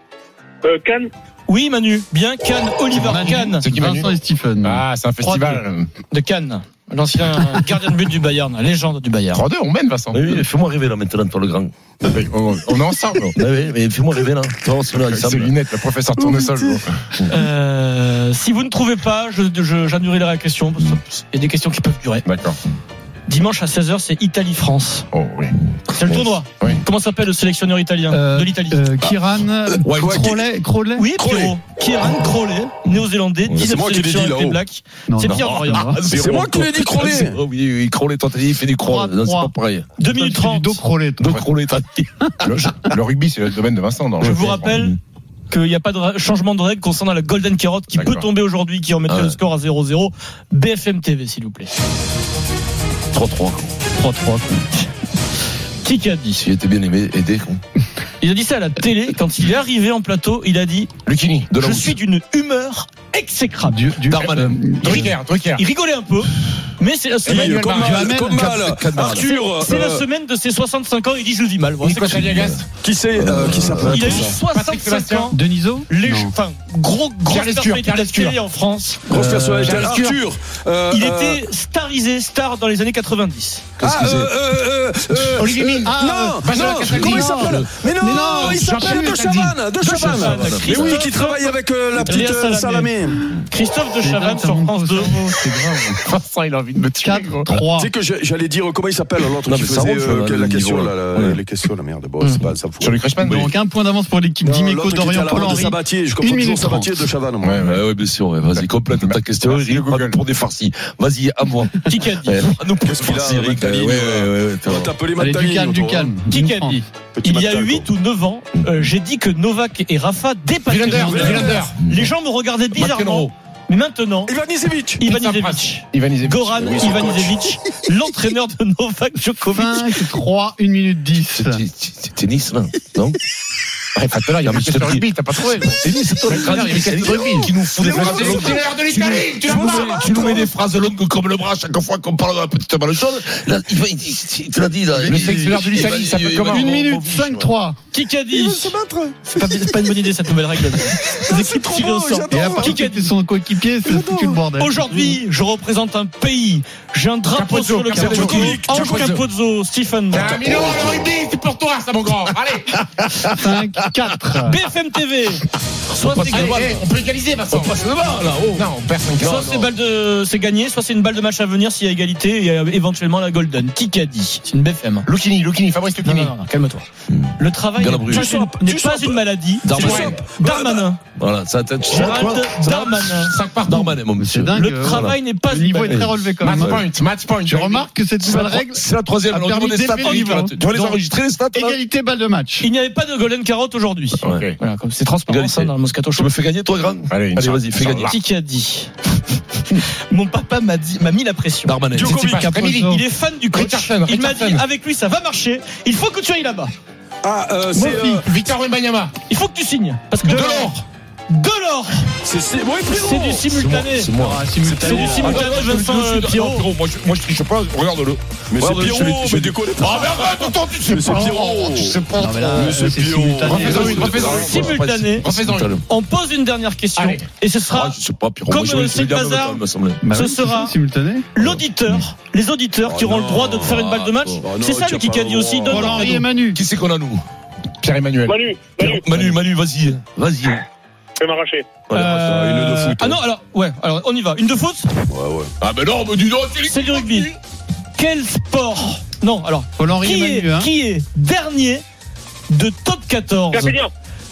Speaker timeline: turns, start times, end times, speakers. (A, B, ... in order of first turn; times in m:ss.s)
0:00.6-0:01.1 A
0:01.5-0:03.6 B
0:02.9-0:04.8 C
0:03.6-0:05.9 D
0:05.2-0:09.4 B
0:09.3-0:10.4 D
0:10.1-0:12.1 E
0:12.0-0:13.4 D
0:13.3-0:15.6 E
0:14.9-0:16.9 D
0:16.3-0:16.6 F
0:17.3-0:22.3 B
0:22.2-0:22.6 D
0:23.3-0:25.1 B
0:25.1-0:25.6 D
0:25.9-0:28.8 B
0:28.1-0:31.1 C
0:29.7-0:30.4 F
0:29.8-0:30.2 E
0:31.0-0:35.9 B
0:33.6-0:34.6 F
0:35.1-0:36.0 C
0:35.4-0:39.9 E
0:36.1-0:37.4 F
0:38.8-0:39.5 C
0:40.0-0:40.8 B
0:40.0-0:41.4 C
0:41.2-0:42.7 E
0:42.4-0:44.7 D
0:44.2-0:45.0 B
0:44.2-0:44.9 E
0:45.5-0:51.7 B
0:47.9-0:48.3 D
0:49.1-0:49.4 E
0:53.1-0:53.8 E
0:53.9-0:54.9 B
0:55.8-0:56.4 B
0:56.4-0:57.6 E
0:58.2-1:00.9 B
1:01.0-1:01.6 D
1:01.5-1:01.9 E
1:01.5-1:03.9 B
1:03.6-1:05.1 C
1:04.1-1:04.9 E
1:04.8-1:07.6 B
1:04.8-1:05.6 D
1:07.2-1:08.1 D
1:07.2-1:10.0 F
1:07.7-1:08.5 C
1:07.8-1:09.3 E
1:09.2-1:12.3 B
1:11.8-1:12.6 D
1:12.1-1:12.6 E
1:12.7-1:14.4 F
1:13.2-1:14.1 E
1:13.8-1:15.4 B
1:13.9-1:14.3 C
1:14.4-1:15.3 D
1:15.3-1:16.3 C
1:15.9-1:19.0 B
1:17.3-1:18.4 D
1:19.1-1:21.4 F
1:19.1-1:19.9 C
1:19.6-1:20.2 D
1:20.9-1:23.6 B
1:23.8-1:24.3 E
1:23.8-1:33.2 F
1:25.4-1:27.6 D
1:25.8-1:29.2 C
1:27.3-1:27.7 E
1:28.4-1:29.6 D
1:29.8-1:33.0 B
1:29.9-1:31.0 E
1:33.5-1:35.4 B
1:34.0-1:36.0 C
1:36.0-1:37.5 D
1:36.8-1:37.9 C
1:37.8-1:43.0 F
1:39.4-1:41.4 E
1:42.8-1:43.5 D
1:43.2-1:47.0 C
1:44.4-1:47.6 F
1:47.4-1:47.9 D
1:47.6-1:55.0 E
1:48.5-1:50.2 D
1:51.9-1:52.4 B
1:52.8-1:56.1 F
1:55.2-1:56.8 C
1:56.3-2:04.3 B
1:57.2-1:57.9 F
2:00.7-2:01.8 D
2:00.9-2:01.7 C
2:01.8-2:02.1 E
2:02.7-2:03.3 D
2:04.2-2:05.0 F
2:05.0-2:10.1 B
2:05.0-2:06.8 D
2:06.5-2:07.5 F
2:09.5-2:11.6 C
2:11.3-2:13.2 E
2:13.9-2:20.5 D
2:14.4-2:27.5 E
2:19.6-2:20.4 F
2:24.9-2:26.8 D
2:26.5-2:27.8 C
2:27.9-2:33.1 B
2:28.3-2:29.6 F
2:30.9-2:32.8 F
2:32.3-2:35.2 C
2:33.8-2:34.4 F
2:34.6-2:40.4 B
2:37.3-2:39.2 D
2:37.9-2:38.3 C
2:38.0-2:39.2 F
2:38.1-2:38.7 E
2:40.1-2:42.8 D
2:40.3-2:41.1 F
2:43.0-2:43.3 E
2:43.3-2:44.6 C
2:44.4-2:46.7 B
2:45.9-2:46.9 E
2:46.3-2:47.8 D
2:47.5-2:49.7 E
2:48.4-2:49.5 D
2:49.2-2:55.1 B
2:55.1-2:56.3 D
2:56.0-2:56.9 B
2:57.1-2:58.5 E
2:57.4-3:01.0 B
2:58.1-2:59.2 F
2:59.6-3:00.2 E
2:59.7-3:00.8 F
2:59.7-3:00.2 D
3:01.1-3:05.2 E
3:01.8-3:03.3 B
3:03.2-3:04.0 D
3:04.2-3:06.9 C
3:04.5-3:06.2 B
3:05.8-3:06.8 E
3:06.4-3:07.7 D
3:07.4-3:10.6 C
3:07.6-3:11.8 E
3:09.4-3:10.1 D
3:10.0-3:11.0 B
3:11.5-3:12.7 C
3:12.6-3:16.3 B
3:14.2-3:14.6 D
3:15.3-3:18.1 E
3:17.1-3:18.2 D
3:18.0-3:18.9 B
3:19.7-3:21.8 B
3:21.6-3:22.3 E
3:21.9-3:22.4 F
3:22.0-3:24.6 D
3:22.0-3:23.0 C
3:22.8-3:26.7 B
3:27.2-3:28.2 F
3:27.7-3:28.2 C
3:27.8-3:29.1 D
3:29.3-3:32.1 B
3:30.2-3:30.8 D
3:32.2-3:33.4 F
3:32.9-3:34.1 B
3:33.5-3:42.7 E
3:34.2-3:35.6 C
3:34.8-3:36.7 B
3:38.5-3:42.0 F
3:42.2-3:44.2 C
3:42.5-3:44.4 F
3:43.5-3:45.8 D
3:43.5-3:45.8 E
3:43.9-3:45.3 B
3:45.8-3:50.8 B
3:47.0-3:47.2 D
3:47.7-3:50.0 E
3:50.0-3:51.3 C
3:51.3-3:56.1 B
3:51.4-3:52.0 E
3:52.8-3:53.8 F
3:53.6-3:54.4 E
3:54.4-3:56.1 F
3:55.7-3:56.6 C
3:56.0-3:57.2 E
3:57.8-3:58.4 D
3:58.3-3:59.1 A
3:58.8-4:00.6 E
4:01.2-4:01.7 A
4:01.9-4:02.5 E
4:01.9-4:04.9 B
4:02.0-4:03.2 F
4:05.1-4:05.5 F
4:05.6-4:07.3 E
4:06.7-4:07.3 B
4:08.0-4:11.8 B
4:09.8-4:10.7 C
4:12.5-4:13.8 B
4:13.5-4:13.9 A